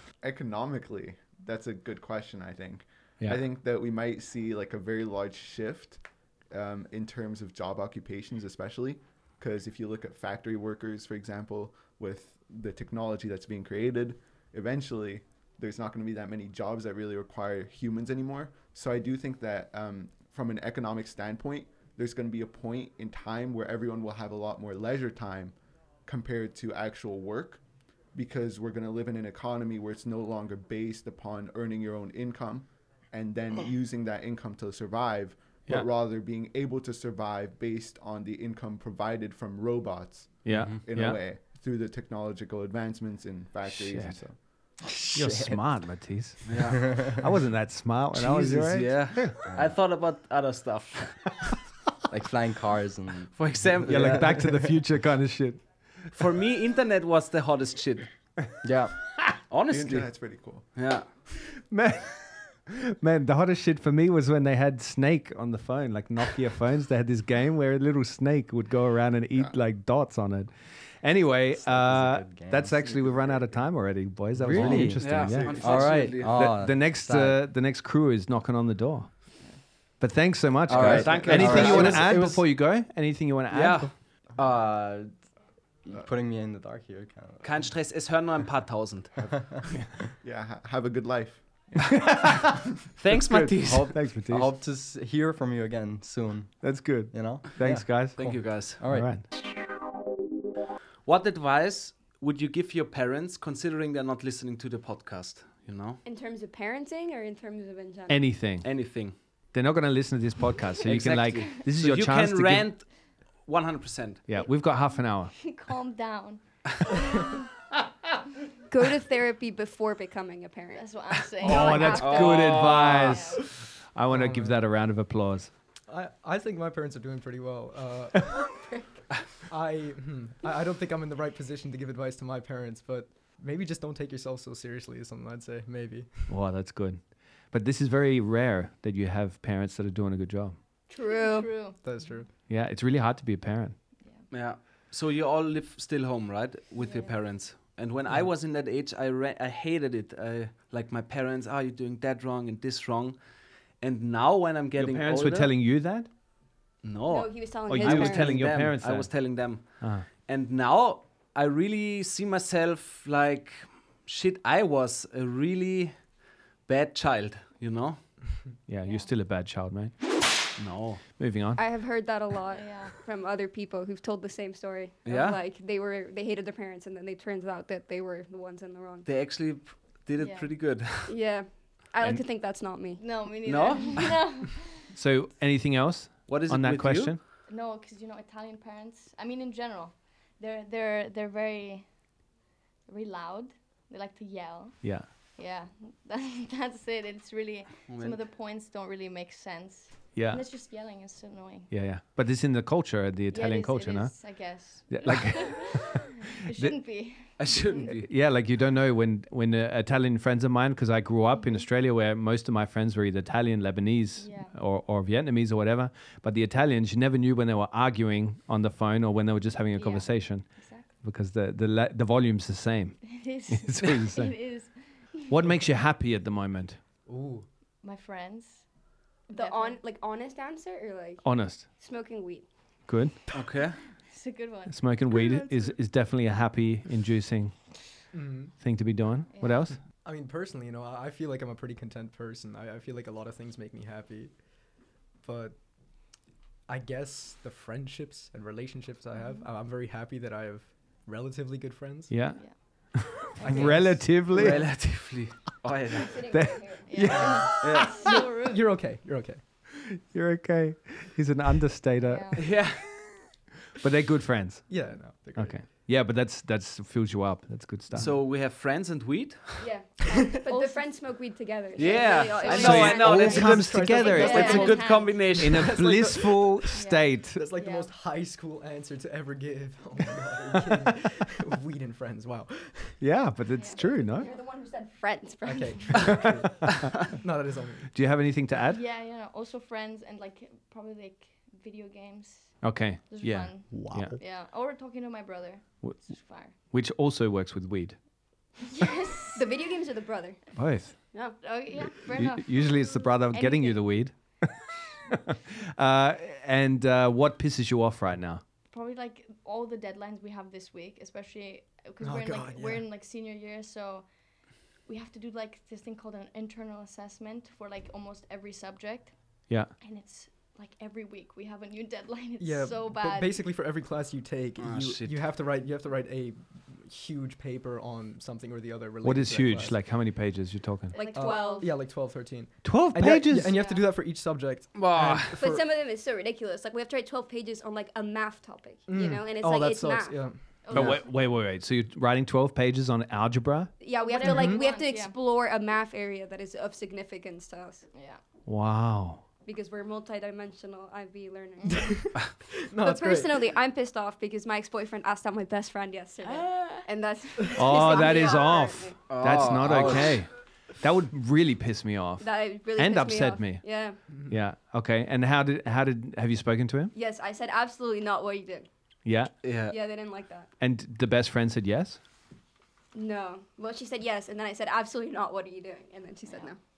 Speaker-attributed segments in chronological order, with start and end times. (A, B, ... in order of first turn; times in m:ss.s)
0:00.2-0:44.4 A
0:40.4-0:41.2 B
0:43.6-0:49.4 B
0:44.9-0:45.8 C
0:46.5-0:46.8 D
0:48.2-0:51.4 D
0:49.4-0:49.7 C
0:52.1-0:54.7 C
0:53.3-0:54.5 D
0:53.9-0:56.1 B
0:56.1-0:58.1 D
0:58.6-0:59.1 C
0:59.5-1:01.1 D
0:59.7-1:00.7 A
1:01.7-1:19.4 B
1:11.5-1:13.5 C
1:14.3-1:17.4 C
1:15.0-1:16.5 D
1:15.3-1:15.8 A
1:20.0-1:24.0 B
1:20.7-1:22.5 C
1:20.8-1:22.2 D
1:20.8-1:21.6 A
1:23.5-1:23.9 D
1:24.4-1:25.3 C
1:25.8-1:27.7 C
1:27.4-1:29.1 D
1:30.2-1:32.5 A
1:33.0-1:34.0 D
1:33.1-1:34.5 B
1:33.5-1:39.2 C
1:36.6-1:39.2 B
1:38.1-1:38.8 D
1:41.0-1:46.0 D
1:46.0-1:48.3 E
1:48.1-1:52.7 B
1:48.6-1:49.2 D
1:50.8-1:54.2 D
1:54.3-1:55.3 B
1:55.3-1:56.4 F
1:58.7-2:02.4 E
2:00.7-2:03.4 F
2:01.4-2:05.5 B
2:02.0-2:03.1 D
2:04.1-2:04.7 G
2:05.9-2:08.6 G
2:09.4-2:16.4 G
2:16.3-2:20.6 B
2:20.9-2:21.7 E
2:20.9-2:21.8 F
2:21.8-2:22.3 G
2:22.5-2:23.8 B
2:24.3-2:33.2 D
2:26.8-2:27.1 F
2:33.8-2:35.5 D
2:34.8-2:36.1 B
2:36.8-2:48.1 D
2:37.1-2:38.4 E
2:37.7-2:40.0 B
2:48.7-2:50.4 B
2:50.6-2:51.0 D
2:51.2-2:51.6 B
2:51.5-2:59.1 E
2:52.5-2:52.9 F
2:55.0-2:55.4 D
2:59.0-3:01.1 D
3:00.2-3:00.5 F
3:01.0-3:03.0 E
3:03.0-3:04.9 F
3:03.4-3:04.2 D
3:04.9-3:07.2 B
3:06.3-3:07.2 D
3:07.5-3:11.9 F
3:12.9-3:21.7 F
3:14.8-3:15.1 B
3:17.9-3:18.2 D
3:20.1-3:20.5 B
3:21.7-3:26.7 B
3:23.3-3:27.9 F
3:27.4-3:28.1 D
3:28.0-3:44.6 B
3:31.3-3:31.7 F
3:34.2-3:34.5 F
3:39.7-3:40.9 F
3:43.0-3:45.3 F
3:45.2-3:46.8 B
3:47.0-3:47.4 G
3:47.8-3:48.7 F
3:49.3-3:52.5 E
3:49.3-3:49.8 F
3:51.2-3:51.7 B
3:52.9-3:53.3 B
3:53.3-3:53.8 D
3:54.1-3:55.7 F
3:54.7-3:57.7 B
3:58.1-3:58.7 G
3:58.6-3:59.8 B
3:59.3-3:59.7 F
3:59.7-4:12.3 G
4:12.1-4:14.9 B
4:12.2-4:14.0 F
4:13.5-4:14.6 G
4:13.5-4:16.1 D
4:16.0-4:17.3 E
4:16.3-4:18.1 B
4:16.9-4:18.6 F
4:17.6-4:17.9 D
4:18.5-4:19.4 G
4:19.9-4:23.0 B
4:22.0-4:22.4 F
4:22.4-4:22.8 D
4:23.8-4:28.2 B
4:24.7-4:25.8 G
4:27.9-4:29.7 D
4:29.6-4:33.4 E
4:30.5-4:30.8 F
4:31.7-4:35.8 D
4:31.8-4:35.4 F
4:32.5-4:37.5 B
4:33.2-4:43.0 G
4:36.7-4:37.8 F
4:43.0-4:44.3 B
4:43.5-4:44.3 F
4:43.9-4:46.2 E
4:45.4-4:48.0 G
4:46.0-4:47.1 B
4:47.9-4:48.8 B
4:48.7-4:56.5 F
4:52.6-4:54.2 B
4:53.9-4:54.1 G
4:55.8-4:58.0 B
4:58.7-4:59.5 F
4:59.3-5:00.4 E
5:00.5-5:01.1 B
5:01.2-5:04.1 F
5:02.0-5:04.6 B
5:05.7-5:08.4 B
5:08.7-5:23.3 F
5:12.0-5:12.9 G
5:22.4-5:29.8 G
5:24.6-5:25.2 D
5:29.0-5:31.0 B
5:30.9-5:31.7 E
5:30.9-5:31.7 F
5:31.1-5:35.6 G
5:32.6-5:33.5 B
5:33.4-5:33.8 F
5:34.7-5:35.3 D
5:35.4-5:40.3 E
5:38.8-5:41.0 G
5:40.6-5:41.1 F
5:40.7-5:43.8 B
5:43.8-5:47.8 E
5:43.9-5:45.1 F
5:44.2-5:44.7 G
5:47.9-5:48.2 F
5:48.4-5:49.2 B
5:49.4-5:51.9 E
5:51.7-5:53.5 G
5:52.8-5:59.0 E
5:56.2-5:56.8 F
5:57.6-6:06.9 B
5:57.8-5:58.4 F
5:59.1-6:00.2 D
6:02.2-6:04.0 E
6:04.1-6:04.4 G
6:06.9-6:08.7 E
6:09.0-6:09.4 B
6:09.4-6:09.8 D
6:09.7-6:10.5 E
6:10.6-6:12.0 B
6:12.9-6:16.6 E